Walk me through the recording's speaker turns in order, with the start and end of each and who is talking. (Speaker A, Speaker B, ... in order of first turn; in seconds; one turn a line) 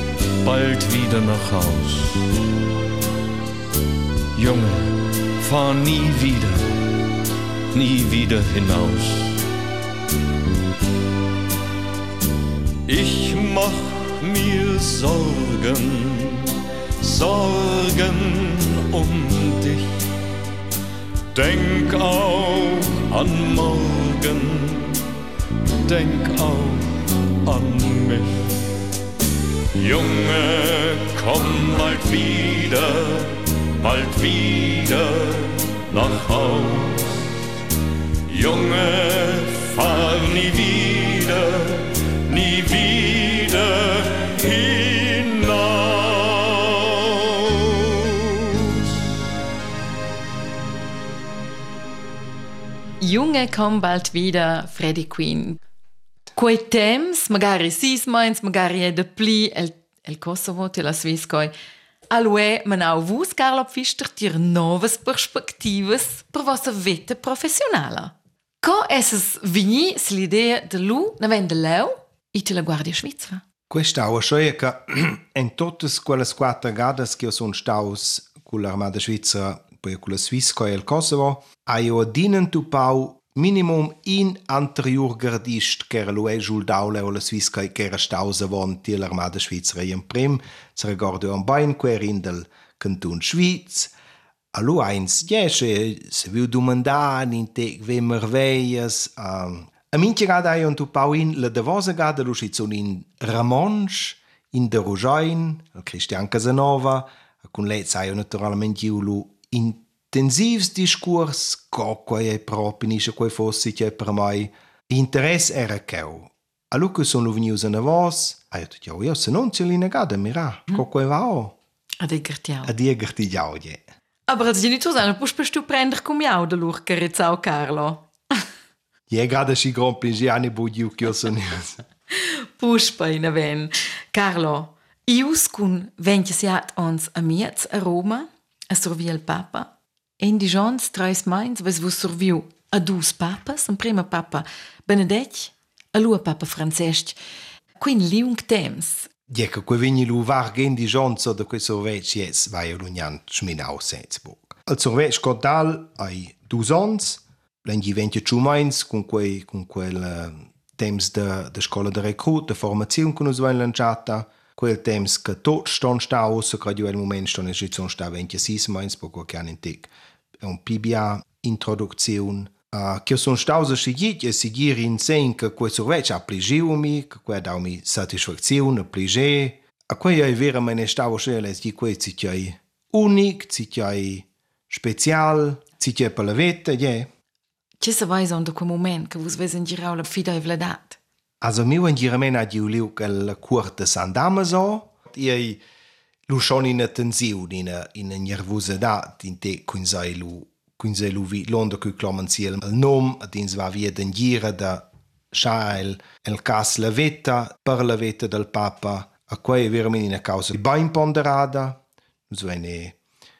Speaker A: 0.4-2.3
Speaker A: 4.3-6.9
Speaker A: 7.7-9.4
Speaker A: 12.8-20.0
Speaker A: 21.3-25.1
Speaker A: 25.8-28.6
Speaker A: 29.8-37.3
Speaker A: 38.3-48.8
Speaker B: 53.0-55.6
Speaker B: 56.3-61.5
Speaker B: 62.1-73.4
Speaker C: 73.7-93.9
Speaker C: 94.5-121.5
Speaker B: 122.0-122.7
Speaker C: 122.6-123.8
Speaker B: 124.3-128.1
Speaker C: 129.1-131.8
Speaker B: 132.1-147.2
Speaker B: 147.8-149.1
Speaker C: 149.3-187.1
Speaker B: 187.8-191.0
Speaker C: 191.4-195.6
Speaker C: 196.3-212.9